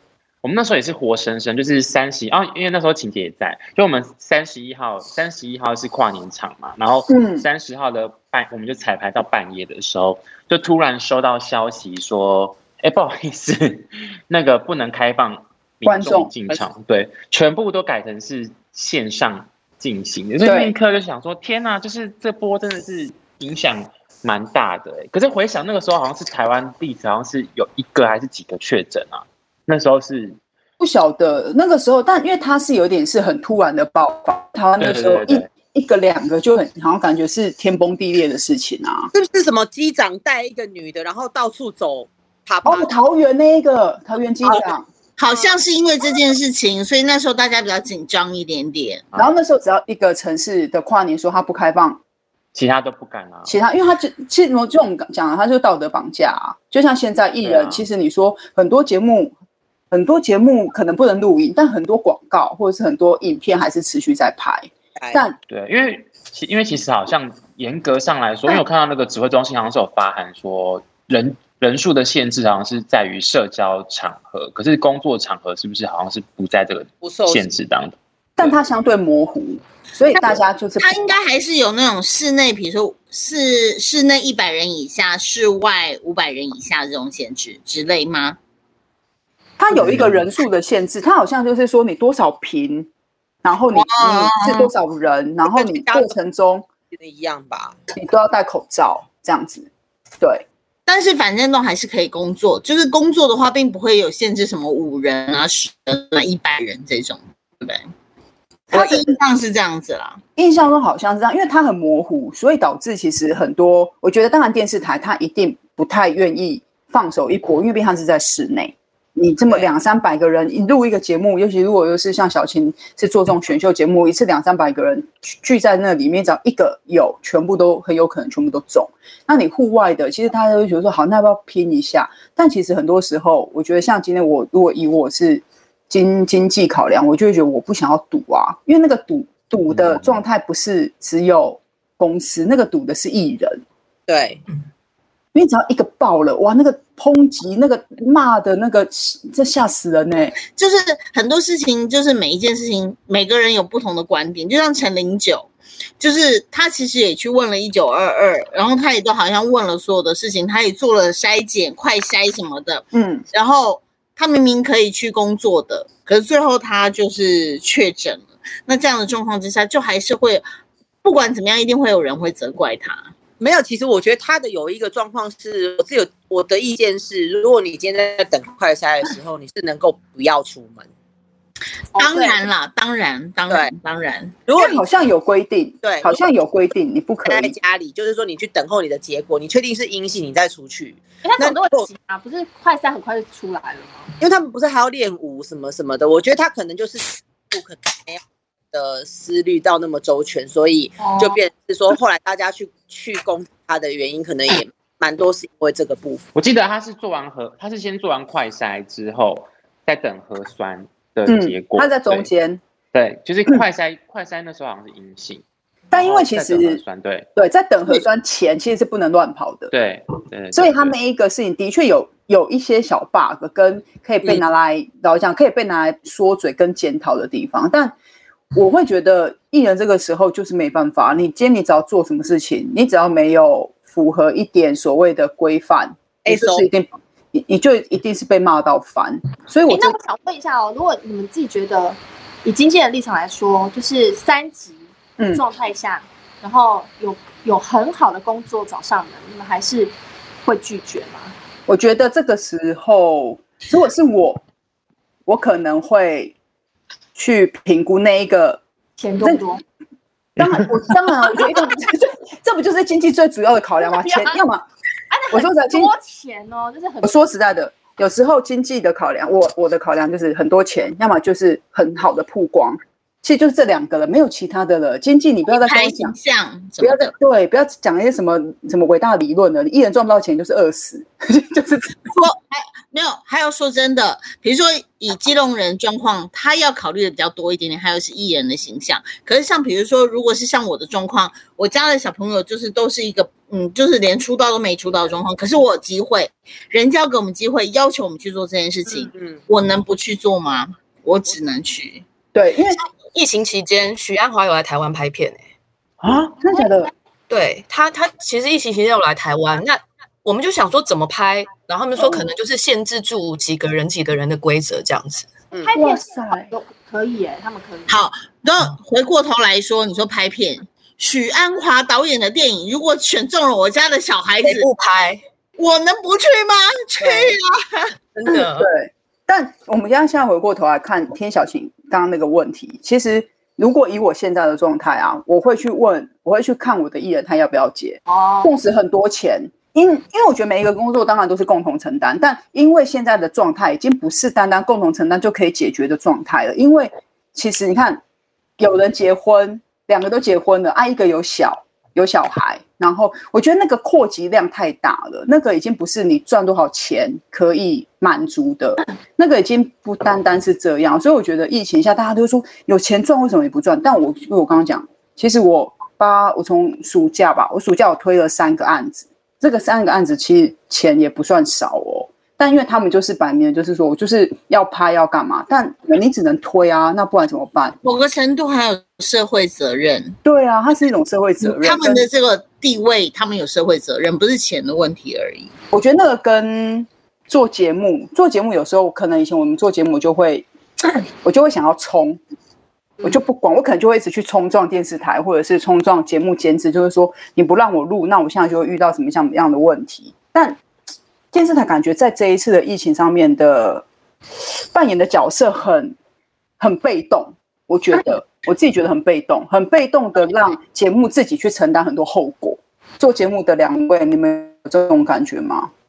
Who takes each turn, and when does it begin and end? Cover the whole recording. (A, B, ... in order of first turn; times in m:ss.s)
0:00.4-0:30.4 A
0:07.1-0:07.4 B
0:15.8-0:16.3 B
0:20.4-0:20.7 B
0:30.8-0:39.1 B
0:34.8-0:35.5 A
0:39.1-0:42.9 C
0:42.6-0:44.9 B
0:45.2-0:49.1 D
0:49.1-0:52.0 B
0:52.5-0:53.6 A
0:53.4-0:59.3 B
0:57.4-0:57.8 A
0:59.9-1:05.4 B
1:05.0-1:05.2 C
1:05.5-1:18.5 A
1:17.0-1:17.4 C
1:18.4-1:21.0 B
1:20.8-1:28.4 D
1:29.6-1:32.9 B
1:33.4-1:36.6 B
1:33.8-1:34.7 D
1:35.5-1:36.1 C
1:36.9-1:37.7 C
1:37.9-1:39.7 B
1:40.2-1:40.4 B
1:40.9-1:47.9 D
1:48.7-1:50.2 D
1:48.7-1:49.1 B
1:50.4-2:23.6 B
2:24.1-2:24.4 C
2:25.3-2:30.4 B
2:30.5-2:50.4 D
2:42.9-2:43.2 B
2:51.0-2:53.1 D
2:53.4-3:00.9 C
3:01.9-3:02.4 E
3:01.9-3:04.4 D
3:04.4-3:04.8 C
3:04.5-3:07.6 B
3:05.8-3:06.1 C
3:07.2-3:11.9 C
3:11.2-3:14.1 E
3:14.2-3:18.2 C
3:18.7-3:26.2 C
3:21.0-3:21.4 E
3:26.3-3:32.3 A
3:31.3-3:32.6 B
3:32.9-3:37.3 A
3:35.9-3:36.8 B
3:37.4-3:39.7 B
3:39.7-3:40.9 A
3:40.5-3:48.0 B
3:48.5-4:00.0 B
3:56.2-3:56.6 C
3:59.7-4:09.9 E
4:05.2-4:05.4 B
4:10.4-4:11.3 E
4:11.7-4:14.4 B
4:15.2-4:16.3 B
4:17.1-4:18.6 B
4:19.0-4:19.6 E
4:19.2-4:19.4 B
4:20.4-4:24.6 B
4:23.8-4:24.4 E
4:25.1-4:27.2 E
4:25.3-4:25.9 B
4:27.0-4:36.2 B
4:35.5-4:37.1 D
4:36.8-4:42.0 B
4:42.1-5:02.0 D
4:58.9-4:59.4 C
5:02.3-5:02.8 B
5:03.1-5:05.4 F
5:06.0-5:06.9 B
5:07.3-5:15.3 F
5:12.0-5:12.3 B
5:15.6-5:18.0 E
5:15.7-5:16.5 B
5:17.9-5:24.6 D
5:24.4-5:25.2 F
5:25.6-5:27.9 D
5:28.1-5:28.7 F
5:28.3-5:48.0 B
5:38.1-5:38.5 E
5:48.6-6:17.8 B
6:17.8-6:20.2 D
6:20.2-6:22.1 B
6:21.4-6:25.5 D
6:25.7-6:30.5 B
6:31.2-6:32.2 B
6:33.0-6:40.6 B
6:41.3-6:43.8 B
6:44.7-6:46.0 B
6:46.6-6:55.7 B